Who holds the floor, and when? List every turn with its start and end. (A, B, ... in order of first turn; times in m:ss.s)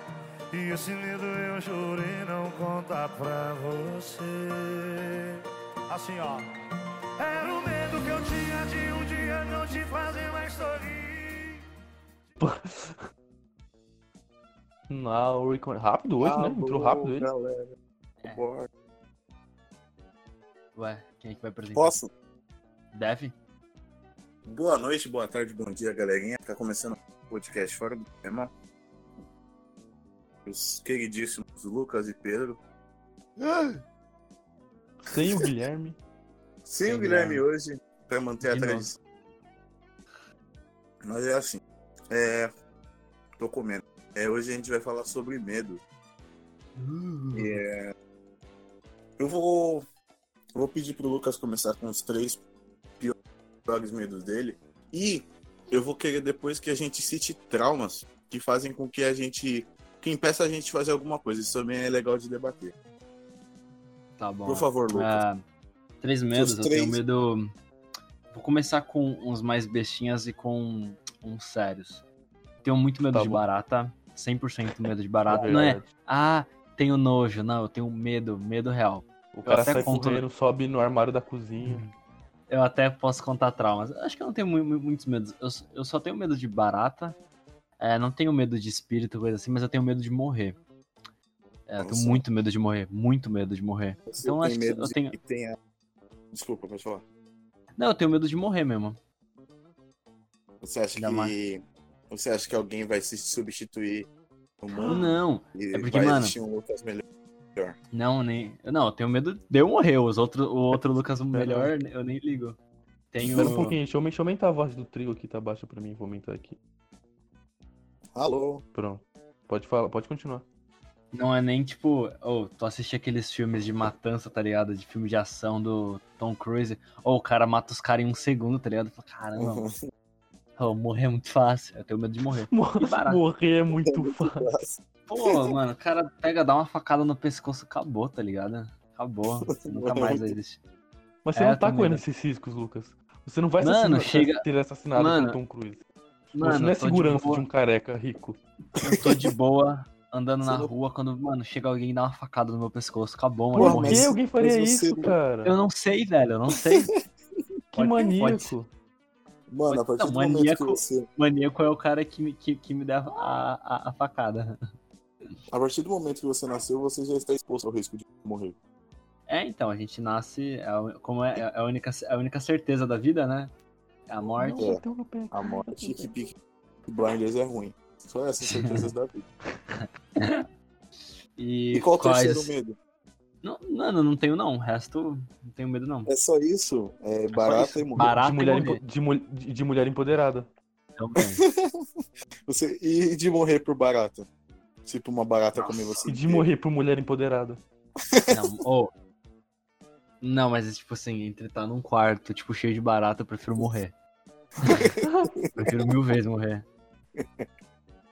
0:00.5-0:06.5 A
0:07.2-0:11.6 A
0:12.4-0:13.0 B
0:14.9-0:17.3 B
0:16.2-0:17.7 C
0:18.2-0:18.5 D
0:18.2-0:18.7 C
0:20.7-0:22.0 D
0:21.7-0:22.1 C
0:22.9-0:23.4 D
0:24.4-0:28.5 C
0:30.4-0:32.6 C
0:33.4-0:33.7 D
0:35.0-0:36.0 B
0:35.1-0:35.5 C
0:36.6-0:39.0 C
0:36.8-0:37.4 D
0:38.4-0:38.9 D
0:41.0-0:42.5 C
0:43.4-0:45.8 C
0:46.8-0:47.6 D
0:47.3-0:47.9 C
0:49.2-0:49.8 C
0:50.5-0:52.4 C
0:53.6-1:02.7 C
1:04.2-1:05.4 D
1:04.4-1:05.2 C
1:06.0-1:07.5 D
1:06.3-1:07.0 C
1:08.3-1:12.0 D
1:12.6-1:20.2 D
1:13.1-1:13.4 B
1:15.2-1:15.8 B
1:19.3-1:21.8 B
1:22.5-1:27.2 D
1:27.8-1:30.6 D
1:31.7-1:35.2 D
1:31.8-1:32.2 C
1:34.1-1:35.6 C
1:36.3-1:37.0 C
1:37.8-1:39.0 D
1:40.6-1:44.1 C
1:40.9-1:41.3 D
1:44.6-1:47.0 C
1:44.7-1:45.2 B
1:44.9-1:46.4 D
1:47.9-1:52.6 D
1:51.3-1:51.7 B
1:53.1-1:53.8 D
1:53.2-1:53.6 C
1:53.3-1:56.6 B
1:58.1-1:58.6 C
1:58.7-2:00.4 B
2:01.1-2:09.7 D
2:09.4-2:09.7 C
2:10.6-2:13.2 D
2:12.5-2:14.5 B
2:13.8-2:15.5 C
2:15.1-2:20.6 D
2:19.5-2:20.4 C
2:21.2-2:25.8 B
2:21.3-2:22.0 D
2:23.6-2:25.4 D
2:26.3-2:27.4 D
2:26.4-2:28.4 B
2:28.8-2:34.1 D
2:30.4-2:30.7 C
2:33.5-2:35.1 C
2:33.5-2:35.6 B
2:35.4-2:36.9 D
2:37.7-2:38.5 D
2:37.7-2:38.7 B
2:39.5-2:41.0 C
2:39.6-2:44.5 D
2:45.5-2:48.6 C
2:49.3-2:53.5 D
2:54.1-2:54.8 D
2:54.2-2:56.1 B
2:54.5-2:56.3 C
2:56.9-2:59.2 C
2:58.4-2:58.9 D
2:59.7-3:00.4 D
3:01.4-3:02.6 D
3:01.7-3:02.7 C
3:03.4-3:06.1 D
3:06.1-3:08.2 C
3:07.3-3:08.8 D
3:08.0-3:10.5 B
3:11.0-3:11.4 D
3:12.5-3:14.3 C
3:14.8-3:16.4 C
3:15.5-3:16.1 D
3:16.1-3:17.6 B
3:18.3-3:18.9 D
3:20.2-3:23.9 D
3:24.6-3:25.0 C
3:25.0-3:25.3 B
3:25.5-3:26.7 D
3:27.2-3:27.5 C